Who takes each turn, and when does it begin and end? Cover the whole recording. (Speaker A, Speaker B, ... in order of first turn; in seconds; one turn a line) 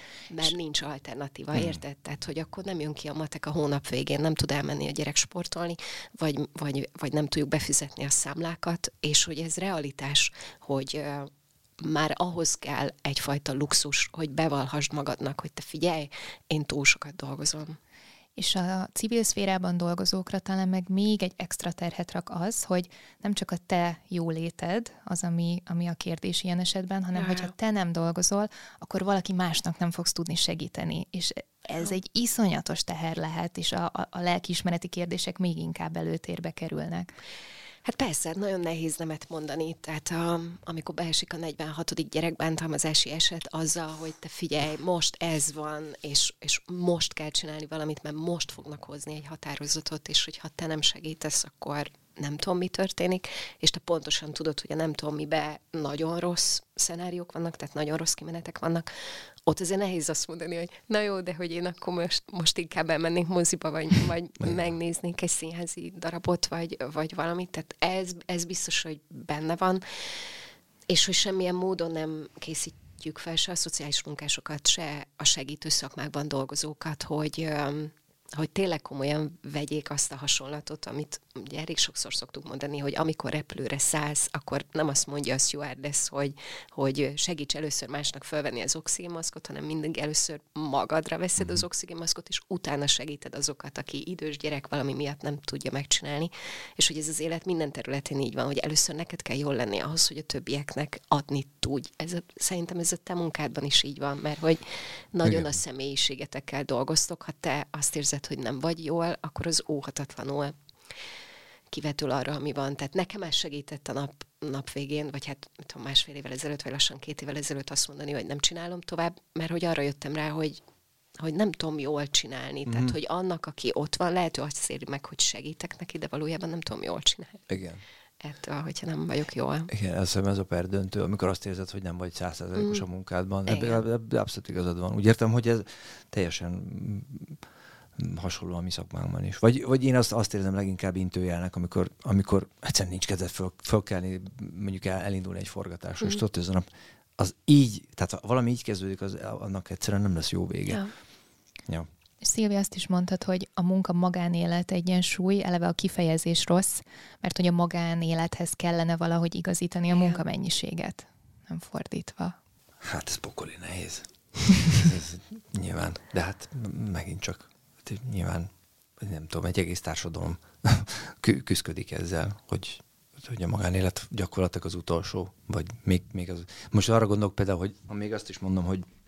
Speaker A: 0.3-17.8
Speaker B: 1.5-1.8
Speaker C: 18.4-37.1
Speaker A: 27.1-27.5
Speaker A: 37.8-69.8
Speaker A: 70.9-110.5
Speaker B: 91.4-91.6
Speaker B: 105.2-105.6
Speaker A: 111.7-120.6
Speaker A: 121.2-127.4
Speaker B: 122.7-122.9
Speaker B: 127.5-127.8
Speaker A: 128.2-129.7
Speaker B: 129.7-137.4
Speaker A: 132.6-132.8
Speaker A: 133.5-133.8
Speaker B: 138.0-146.7
Speaker B: 147.2-150.9
Speaker C: 152.2-162.3
Speaker A: 159.9-160.2
Speaker B: 162.8-178.8